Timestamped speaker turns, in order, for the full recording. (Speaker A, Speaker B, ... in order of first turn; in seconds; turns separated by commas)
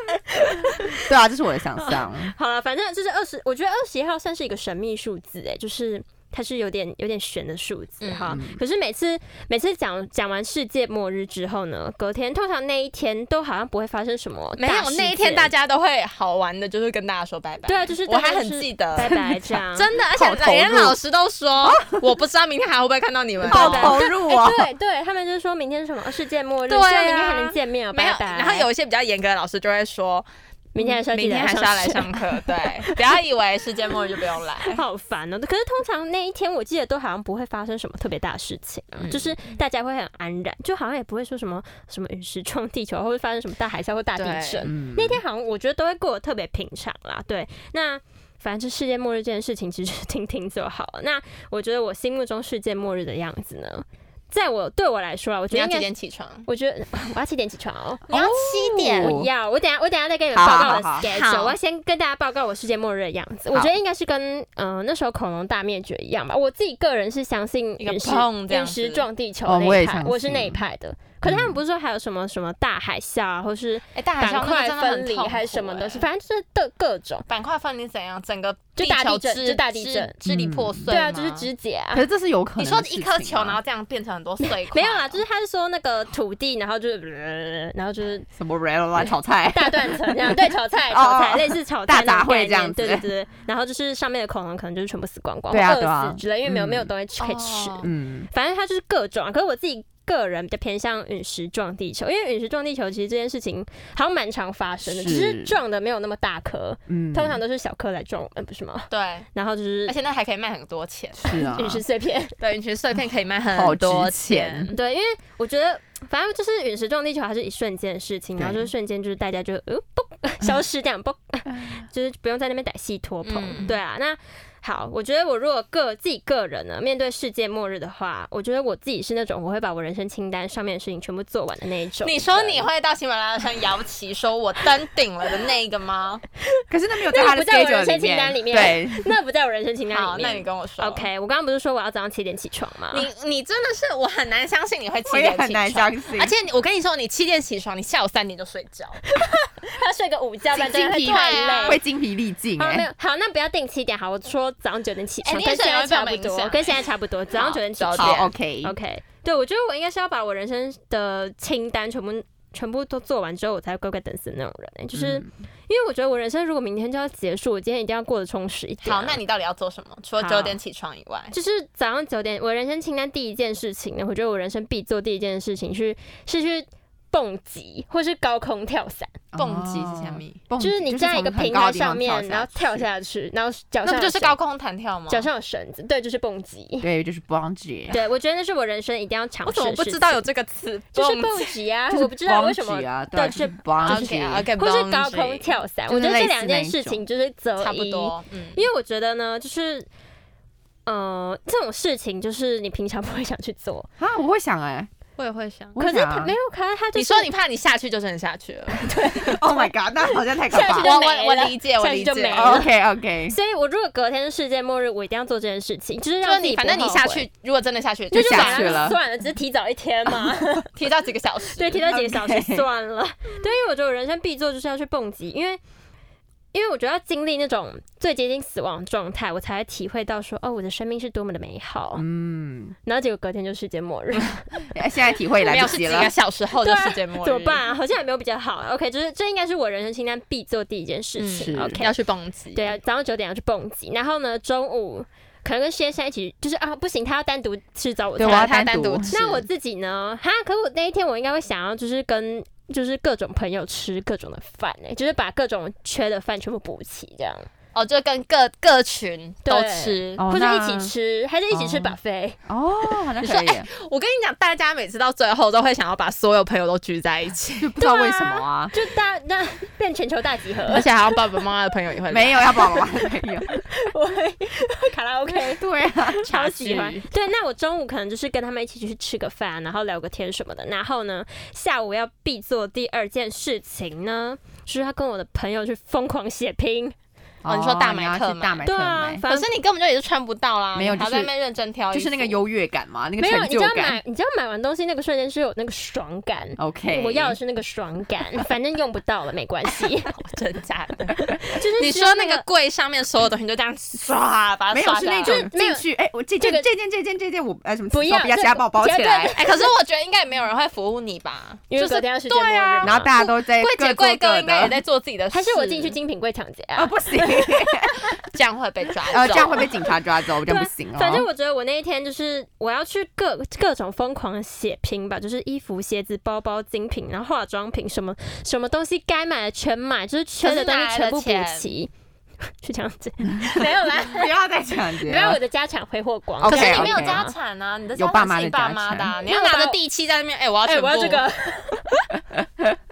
Speaker A: 0.6-0.9, Speaker B: 1.0-2.3, Speaker A: 1.8-15.5, Speaker C: 8.0-8.4, Speaker B: 8.3-8.6, Speaker C: 14.6-19.1, Speaker A: 17.7-19.9, Speaker B: 19.0-19.6, Speaker C: 19.7-24.0, Speaker B: 20.1-21.0, Speaker B: 21.7-22.0, Speaker B: 23.4-24.7, Speaker A: 23.5-28.7, Speaker C: 26.7-30.3, Speaker A: 30.7-32.9, Speaker C: 30.8-34.8, Speaker A: 34.7-55.9, Speaker C: 38.9-39.6, Speaker C: 44.2-44.7, Speaker B: 44.7-45.2, Speaker C: 55.5-56.5, Speaker A: 56.5-58.0, Speaker C: 58.1-59.2, Speaker B: 58.1-59.3, Speaker A: 58.6-77.3, Speaker B: 60.3-61.1, Speaker C: 61.0-61.6, Speaker C: 67.8-69.1, Speaker B: 69.5-70.6, Speaker B: 71.3-71.6, Speaker C: 74.0-76.0, Speaker C: 77.3-81.5, Speaker A: 78.8-80.2, Speaker B: 80.2-80.9, Speaker A: 80.9-82.0, Speaker B: 81.9-83.6, Speaker C: 82.6-85.2, Speaker A: 84.4-88.3, Speaker B: 88.4-93.1, Speaker A: 89.5-110.0, Speaker B: 95.5-96.9, Speaker C: 97.2-97.9, Speaker B: 97.8-98.3, Speaker B: 104.9-105.6, Speaker B: 106.9-107.4, Speaker C: 108.9-109.3, Speaker C: 109.9-111.2, Speaker B: 111.2-111.8, Speaker A: 111.3-112.3, Speaker C: 112.4-114.8, Speaker B: 113.5-114.7, Speaker A: 114.7-132.7, Speaker B: 118.4-118.7, Speaker B: 121.5-121.8, Speaker C: 123.2-123.8, Speaker C: 132.0-136.2, Speaker A: 136.5-143.1, Speaker B: 136.7-139.2, Speaker C: 139.9-141.1, Speaker C: 142.9-149.0, Speaker B: 145.1-146.3, Speaker A: 149.1-151.8, Speaker B: 150.5-152.9, Speaker C: 150.8-151.8, Speaker A: 152.6-169.2, Speaker C: 155.2-156.8, Speaker C: 157.3-158.3, Speaker B: 158.0-158.8, Speaker B: 164.9-165.3, Speaker C: 168.8-171.3, Speaker A: 171.3-179.2, Speaker B: 179.3-182.8, Speaker C: 179.4-180.4, Speaker A: 180.6-184.4, Speaker C: 183.8-185.3, Speaker A: 185.1-186.9, Speaker B: 186.8-188.0, Speaker A: 187.9-190.2, Speaker C: 189.4-191.5, Speaker A: 190.9-199.9, Speaker B: 191.9-194.5, Speaker C: 193.8-195.5, Speaker B: 195.9-197.0, Speaker C: 197.6-198.7, Speaker A: 200.9-203.9, Speaker B: 204.0-204.9, Speaker C: 205.2-205.8, Speaker B: 205.8-206.3, Speaker A: 205.8-207.3, Speaker C: 206.9-209.4, Speaker A: 208.7-212.7, Speaker B: 209.2-210.9, Speaker C: 210.8-212.6, Speaker B: 212.3-213.4, Speaker A: 213.3-217.3, Speaker C: 216.2-218.9, Speaker A: 218.1-220.7, Speaker B: 218.1-219.0, Speaker C: 220.7-221.9, Speaker A: 221.5-225.6, Speaker B: 221.9-222.7, Speaker A: 226.5-232.1, Speaker B: 232.0-232.8, Speaker A: 232.9-234.6, Speaker B: 234.7-236.1, Speaker C: 235.4-237.6, Speaker A: 236.6-242.0, Speaker C: 241.2-242.7, Speaker B: 241.4-241.8, Speaker A: 242.6-248.5, Speaker B: 248.2-249.2, Speaker C: 248.2-249.4, Speaker A: 249.1-257.5, Speaker C: 257.7-260.2, Speaker A: 259.5-262.4, Speaker B: 260.2-260.9, Speaker B: 261.5-262.0, Speaker B: 262.5-263.7, Speaker C: 263.2-267.7, Speaker B: 267.6-268.7, Speaker A: 267.8-270.9, Speaker C: 270.7-272.7, Speaker B: 272.1-273.6, Speaker A: 273.5-286.9, Speaker B: 275.5-276.3, Speaker C: 276.3-277.1, Speaker B: 287.4-289.2, Speaker C: 287.5-288.6, Speaker A: 288.6-289.6, Speaker C: 289.3-292.4, Speaker B: 290.8-291.3, Speaker B: 291.9-294.0, Speaker A: 293.2-300.1, Speaker B: 296.6-297.4, Speaker C: 300.1-305.4, Speaker A: 301.3-302.4, Speaker B: 304.7-309.4, Speaker A: 305.2-305.8, Speaker A: 306.4-306.7, Speaker A: 307.9-309.7, Speaker C: 309.4-316.0, Speaker A: 311.7-313.1, Speaker B: 312.8-314.8, Speaker A: 315.3-318.0, Speaker B: 316.8-318.0, Speaker C: 318.3-319.6, Speaker B: 319.1-321.3, Speaker A: 320.4-331.9, Speaker C: 330.4-331.7, Speaker A: 332.6-334.3, Speaker B: 334.1-335.4, Speaker A: 335.0-337.3, Speaker B: 336.4-337.2, Speaker C: 336.4-341.2, Speaker B: 338.0-339.1, Speaker A: 339.2-339.8, Speaker A: 340.7-342.1